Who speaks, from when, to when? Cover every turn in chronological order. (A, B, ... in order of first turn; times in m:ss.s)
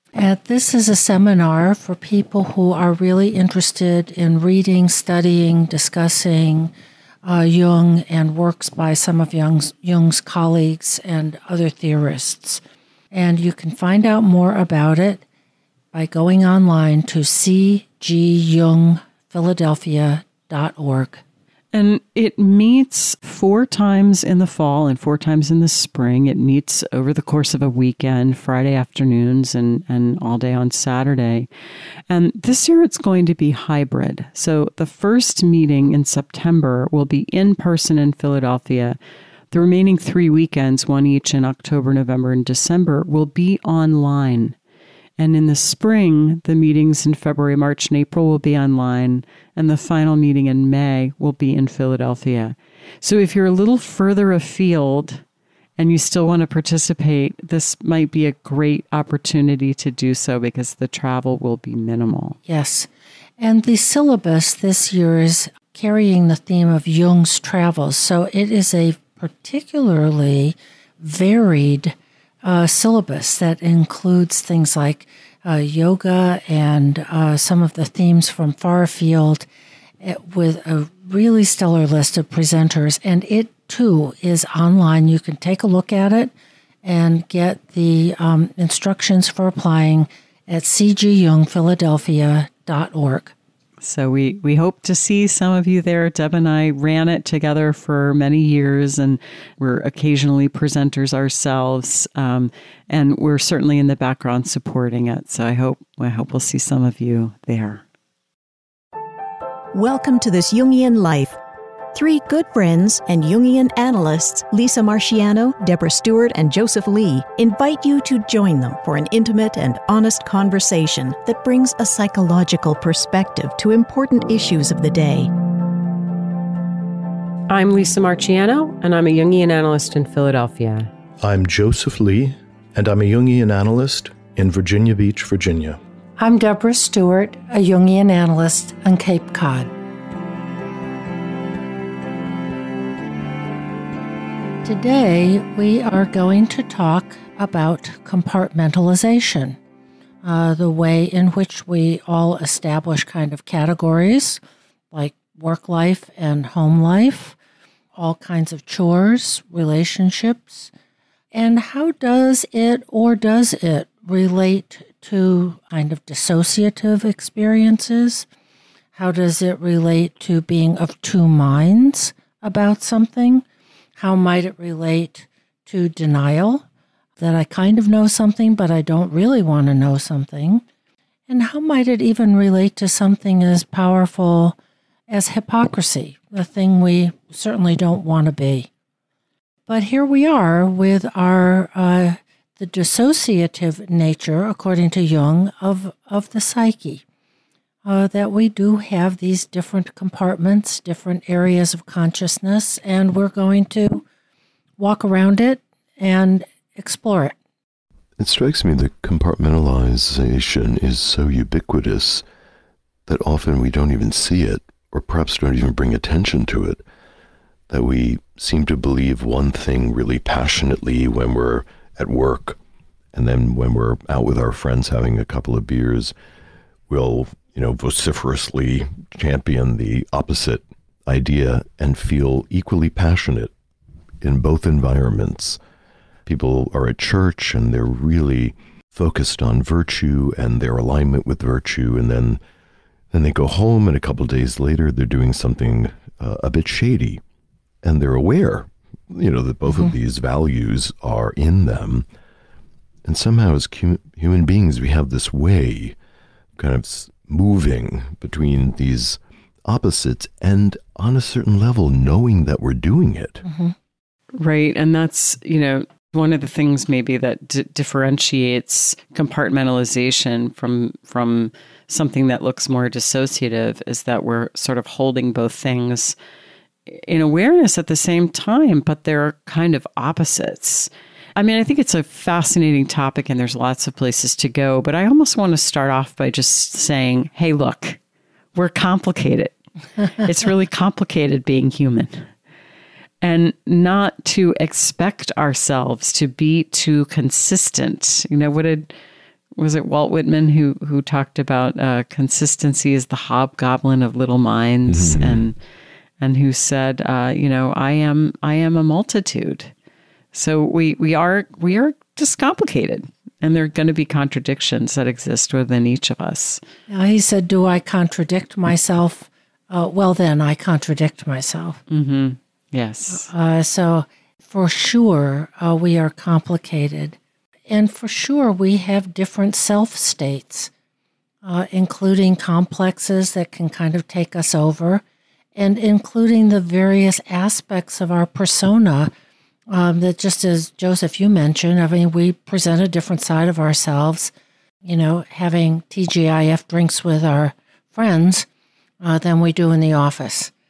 0:00.1-0:06.7 A
0:07.2-0:12.6 A
0:13.1-0:15.2 A
0:15.9-0:21.2 A
0:21.7-0:31.5 B
0:32.1-0:39.0 B
0:39.5-0:44.6 B
0:45.2-0:55.2 B
0:55.8-1:02.4 B
1:02.5-1:02.9 A
1:03.4-1:19.5 A
1:20.0-1:26.3 A
1:26.8-1:33.4 A
1:33.8-1:47.8 B
1:49.7-1:51.4 C
1:51.9-2:05.3 C
2:07.5-2:10.9 D
2:11.2-2:15.8 E
2:16.2-2:19.7 A
2:24.6-2:29.6 A
2:30.2-2:34.4 A
2:34.9-2:37.4 A
2:38.0-2:40.7 A
2:41.3-2:48.3 A
2:49.0-2:53.4 A
2:54.0-2:56.6 A
2:57.2-3:00.6 A
3:01.3-3:04.6 A
3:05.1-3:08.7 A
3:09.7-3:17.0 A
3:17.8-3:24.0 A
3:24.8-3:27.4 A
3:28.2-3:32.2 F
3:33.1-3:36.8 F
3:37.7-3:42.6 F
3:43.1-3:46.1 F
3:46.9-3:53.5 F
3:54.2-3:55.6 F
3:56.3-4:02.4 F
4:03.1-4:07.2 F
4:07.8-4:12.1 F
4:13.0-4:16.0 F
4:16.6-4:23.4 F
4:23.5-4:23.8 A
4:24.4-4:36.2 B
4:36.9-4:48.0 B
4:48.5-4:52.3 B
4:53.2-4:58.9 B
4:59.6-5:05.6 B
5:04.9-5:05.5 F
5:06.2-5:09.7 B
5:10.3-5:16.6 B
5:16.9-5:21.8 A
5:21.9-5:23.3 B
5:23.1-5:30.7 A
5:31.4-5:35.0 A
5:35.6-5:39.1 A
5:39.7-5:44.3 A
5:44.8-5:48.5 A
5:49.0-5:50.5 A